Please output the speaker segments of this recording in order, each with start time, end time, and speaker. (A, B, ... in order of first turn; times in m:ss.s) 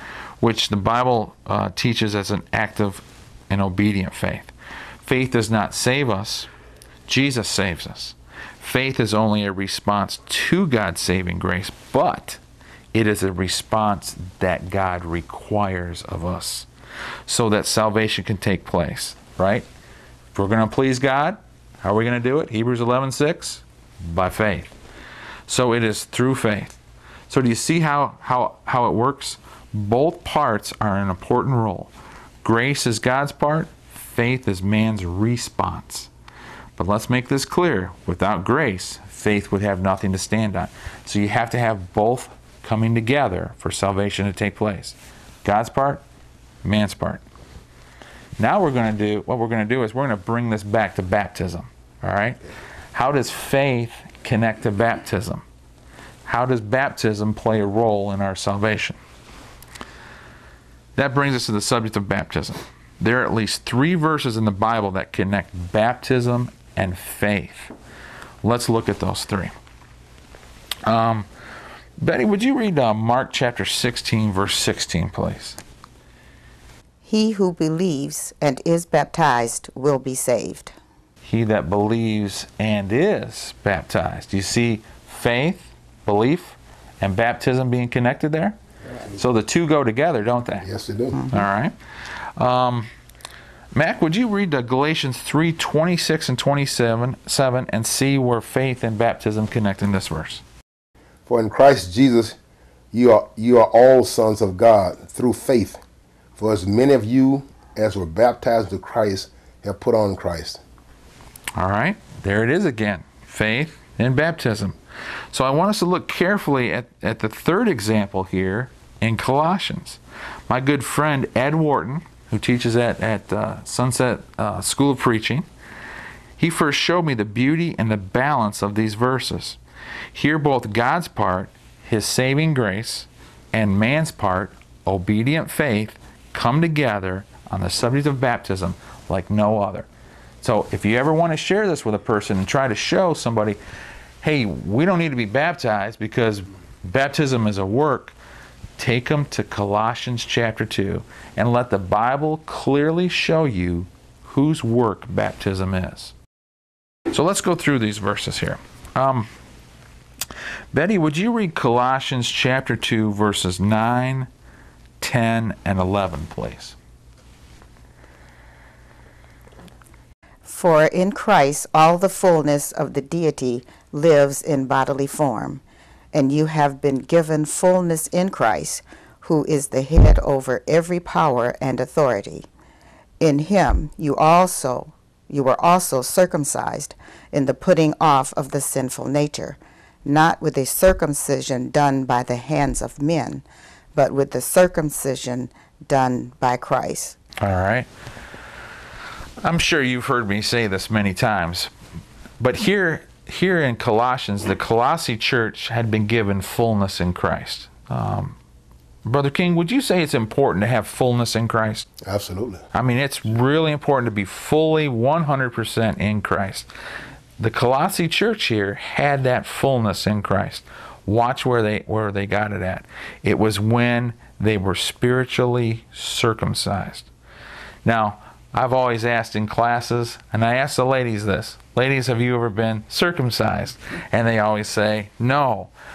0:00.4-0:04.5 A
0:05.0-0:06.5 A
0:07.1-0:12.4 A
0:12.9-0:16.7 A
0:17.3-0:19.6 A
0:20.3-0:24.7 A
0:25.5-0:26.8 A
0:27.3-0:31.9 A
0:32.4-0:36.1 A
0:36.8-0:46.0 A
0:46.6-0:47.2 A
0:48.4-0:52.4 A
0:52.9-0:55.4 A
0:56.2-0:59.0 A
1:01.0-1:07.7 A
1:08.4-1:09.5 A
1:10.8-1:11.2 A
1:12.0-1:15.6 A
1:17.0-1:20.7 B
1:21.2-1:28.6 A
1:29.1-1:30.7 A
1:30.6-1:31.3 C
1:31.2-1:32.9 A
1:33.7-1:40.4 A
1:41.2-1:42.4 C
1:42.9-1:45.8 C
1:46.4-1:50.6 C
1:51.5-1:54.8 A
1:55.3-2:05.4 A
2:06.4-2:09.6 A
2:10.1-2:19.8 A
2:20.4-2:23.6 A
2:24.2-2:28.1 A
2:28.8-2:36.1 A
2:37.1-2:39.3 A
2:40.7-2:44.3 A
2:45.0-2:46.7 A
2:50.4-3:02.5 B
3:03.2-3:17.2 B
3:17.4-3:17.9 A
3:19.4-3:21.7 A
3:22.4-3:28.4 A
3:29.0-3:31.9 A
3:32.0-3:32.6 C
3:32.7-3:36.7 A
3:37.4-3:47.1 A
3:47.8-3:55.7 A